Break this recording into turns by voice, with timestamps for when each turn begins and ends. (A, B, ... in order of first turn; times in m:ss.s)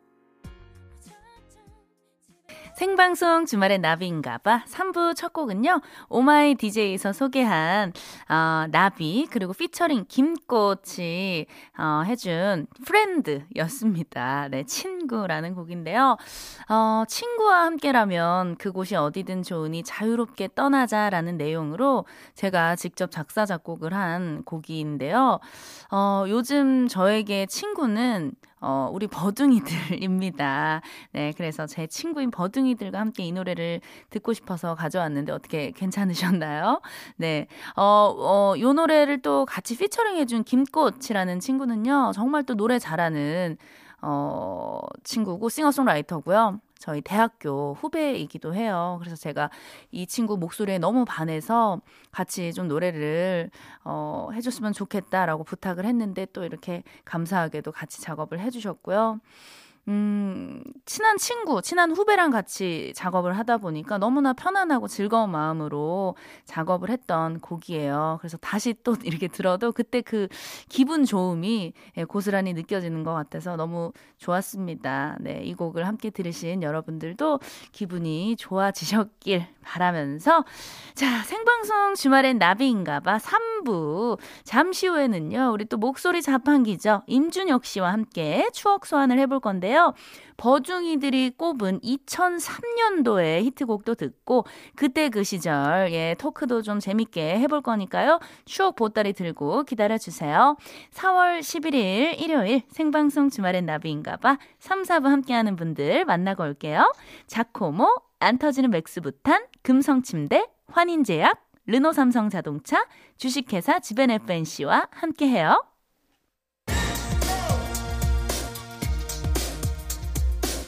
0:02.8-0:59.2 A
0:59.9-1:55.6 A